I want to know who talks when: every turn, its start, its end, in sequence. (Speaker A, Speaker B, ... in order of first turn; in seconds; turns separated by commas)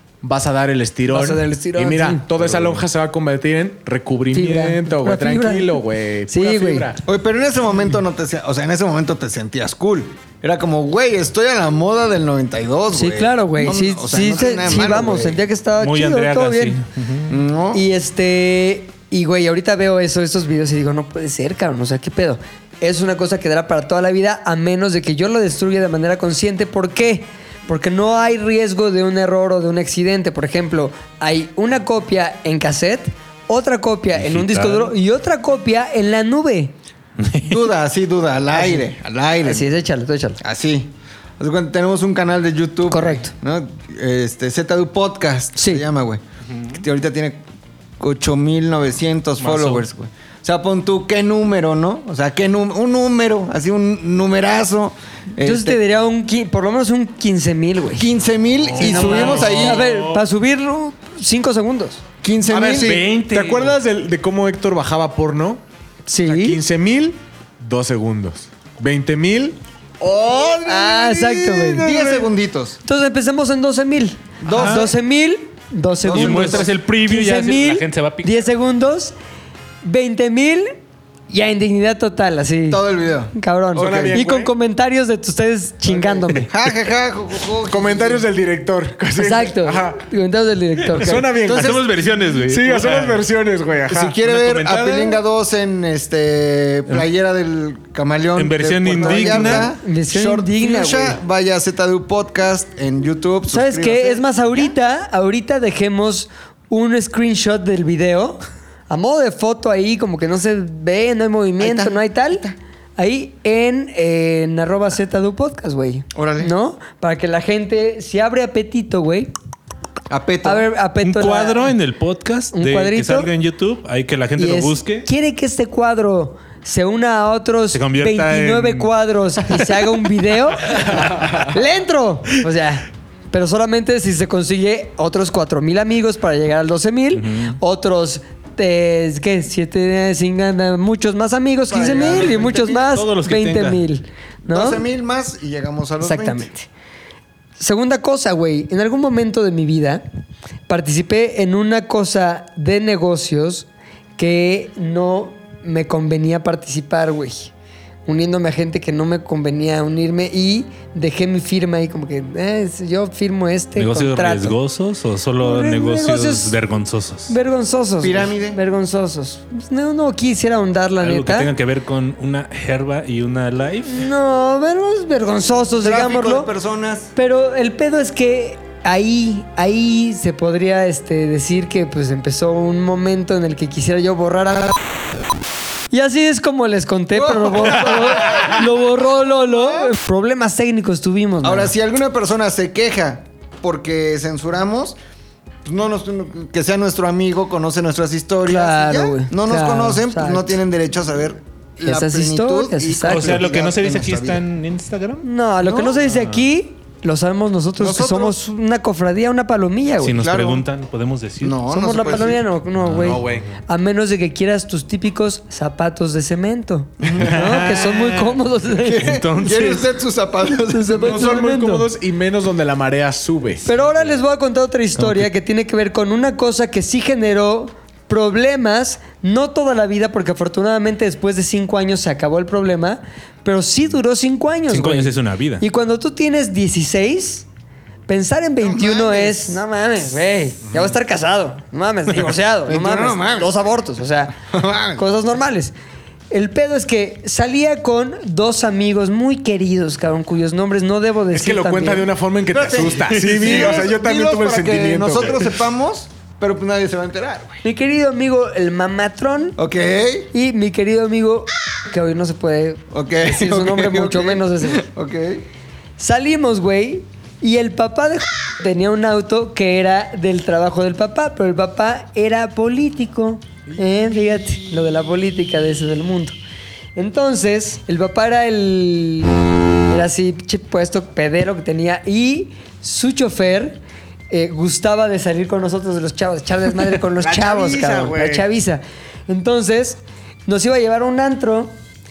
Speaker A: 0.2-7.0, Speaker B: 1.1-2.2, Speaker C: 2.4-2.8, Speaker B: 4.3-6.9, Speaker D: 7.0-15.4, Speaker B: 12.9-16.8, Speaker C: 15.8-17.3, Speaker D: 17.3-17.8, Speaker B: 17.7-36.7, Speaker C: 34.1-34.9, Speaker C: 37.2-37.6, Speaker D: 37.5-39.6, Speaker B: 38.5-38.9, Speaker B: 39.4-40.4, Speaker D: 40.4-47.4, Speaker B: 42.9-43.3, Speaker B: 45.5-45.8, Speaker C: 46.5-46.8, Speaker D: 48.0-55.8, Speaker C: 49.4-49.9, Speaker B: 55.4-58.1, Speaker D: 58.0-59.9, Speaker C: 58.7-60.2, Speaker B: 58.8-62.0, Speaker D: 62.2-63.0, Speaker A: 62.5-65.6, Speaker C: 62.7-63.8, Speaker B: 66.1-66.6, Speaker A: 66.2-69.6, Speaker D: 70.0-72.8, Speaker B: 70.7-71.9, Speaker A: 71.6-72.3, Speaker B: 72.8-79.1, Speaker D: 74.4-74.9, Speaker C: 74.5-74.9, Speaker D: 76.0-76.7, Speaker C: 76.1-78.5, Speaker B: 79.8-80.7, Speaker B: 81.3-86.5, Speaker D: 82.7-84.2, Speaker A: 83.7-84.5, Speaker D: 86.3-88.2, Speaker A: 87.7-90.0, Speaker B: 89.1-91.3, Speaker A: 90.9-94.2, Speaker D: 91.4-91.8, Speaker C: 91.5-93.2, Speaker D: 93.9-104.7, Speaker C: 94.2-95.1, Speaker C: 98.3-99.7, Speaker B: 99.0-101.2, Speaker B: 103.5-112.5, Speaker D: 111.6-112.5, Speaker B: 113.0-119.3, Speaker D: 116.1-116.5, Speaker D: 120.1-120.7, Speaker B: 120.4-121.7, Speaker C: 121.0-125.1, Speaker B: 122.5-123.3, Speaker B: 124.4-144.8, Speaker C: 127.7-128.9, Speaker C: 130.8-131.4, Speaker C: 137.1-137.6, Speaker D: 141.7-142.8, Speaker C: 141.8-143.8, Speaker D: 144.5-146.5, Speaker B: 146.0-146.7, Speaker B: 147.6-150.0, Speaker B: 150.7-157.5, Speaker B: 158.1-164.6, Speaker C: 163.8-167.3, Speaker B: 165.4-166.6, Speaker B: 167.3-171.5, Speaker D: 168.0-168.6, Speaker C: 171.0-174.1, Speaker B: 173.9-176.5, Speaker D: 175.8-177.1, Speaker B: 177.1-184.8, Speaker B: 185.9-191.7, Speaker D: 187.1-188.6, Speaker D: 189.4-189.9, Speaker D: 191.4-195.0, Speaker D: 195.6-204.4, Speaker B: 198.4-200.6, Speaker B: 201.8-203.5, Speaker C: 203.1-206.4, Speaker B: 205.2-210.1, Speaker D: 207.8-208.4, Speaker C: 210.0-211.6, Speaker D: 210.1-210.6, Speaker D: 211.4-212.4, Speaker B: 211.7-219.1, Speaker C: 212.8-213.5, Speaker A: 213.0-213.5, Speaker D: 217.0-217.5, Speaker C: 217.2-219.9, Speaker D: 218.8-221.4, Speaker B: 220.7-221.9, Speaker A: 221.0-223.6, Speaker B: 223.6-237.4, Speaker C: 225.0-225.3, Speaker C: 234.7-235.6, Speaker B: 238.1-244.4, Speaker D: 238.6-239.6, Speaker D: 242.7-243.7, Speaker D: 244.4-245.0, Speaker B: 244.9-245.7, Speaker B: 246.3-252.1, Speaker A: 251.3-255.5, Speaker D: 252.5-257.6, Speaker B: 257.6-259.6, Speaker D: 259.6-260.3, Speaker B: 260.3-264.9, Speaker D: 262.9-265.4, Speaker B: 266.0-276.4, Speaker B: 276.9-283.8, Speaker B: 284.3-291.7, Speaker A: 287.2-288.4